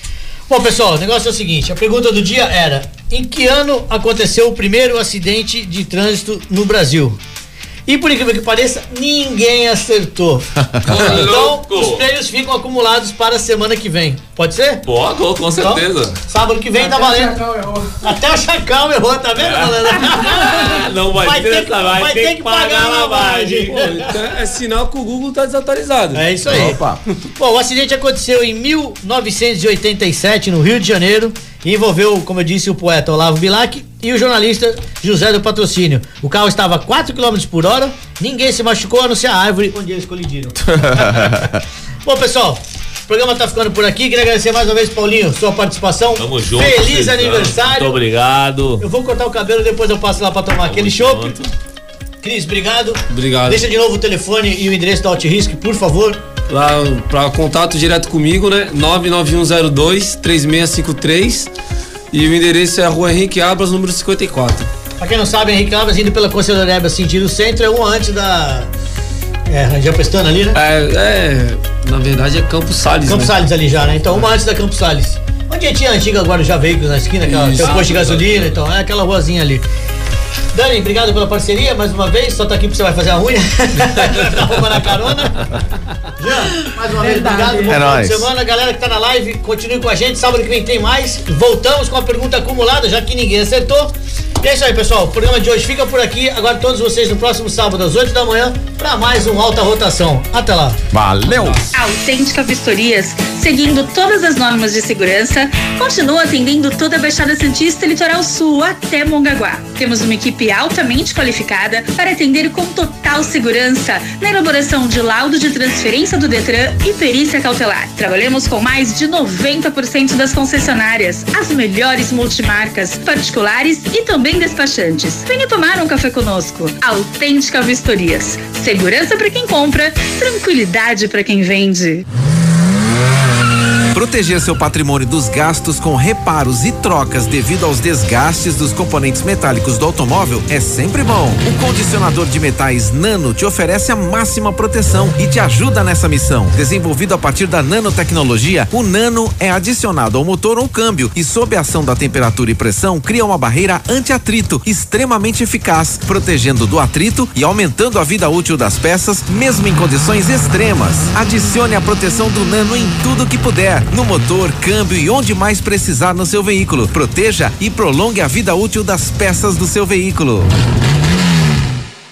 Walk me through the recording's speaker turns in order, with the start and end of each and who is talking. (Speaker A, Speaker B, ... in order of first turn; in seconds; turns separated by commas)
Speaker A: 0.5-7.2, Speaker A: 7.9-14.8, Speaker B: 10.8-12.1, Speaker C: 10.9-11.2, Speaker B: 14.8-16.2, Speaker A: 15.6-17.4, Speaker D: 16.7-18.0, Speaker A: 18.0-24.0, Speaker B: 19.4-23.9, Speaker C: 23.7-26.2, Speaker A: 26.1-26.8, Speaker E: 26.4-27.0, Speaker A: 27.4-41.3, Speaker E: 40.7-41.6, Speaker A: 42.0-48.0, Speaker B: 46.2-48.8, Speaker A: 48.8-51.4, Speaker B: 50.6-51.5, Speaker A: 52.2-56.2, Speaker C: 53.1-53.6, Speaker C: 56.5-61.5, Speaker C: 62.1-64.7, Speaker A: 65.0-68.7, Speaker A: 69.5-70.6, Speaker C: 70.5-73.4, Speaker A: 73.0-79.6, Speaker C: 77.2-78.5, Speaker A: 80.5-85.6, Speaker A: 86.2-100.8, Speaker D: 87.0-87.8, Speaker E: 87.7-88.3, Speaker E: 100.9-101.6, Speaker C: 101.3-101.7, Speaker F: 101.7-132.0, Speaker E: 133.9-170.5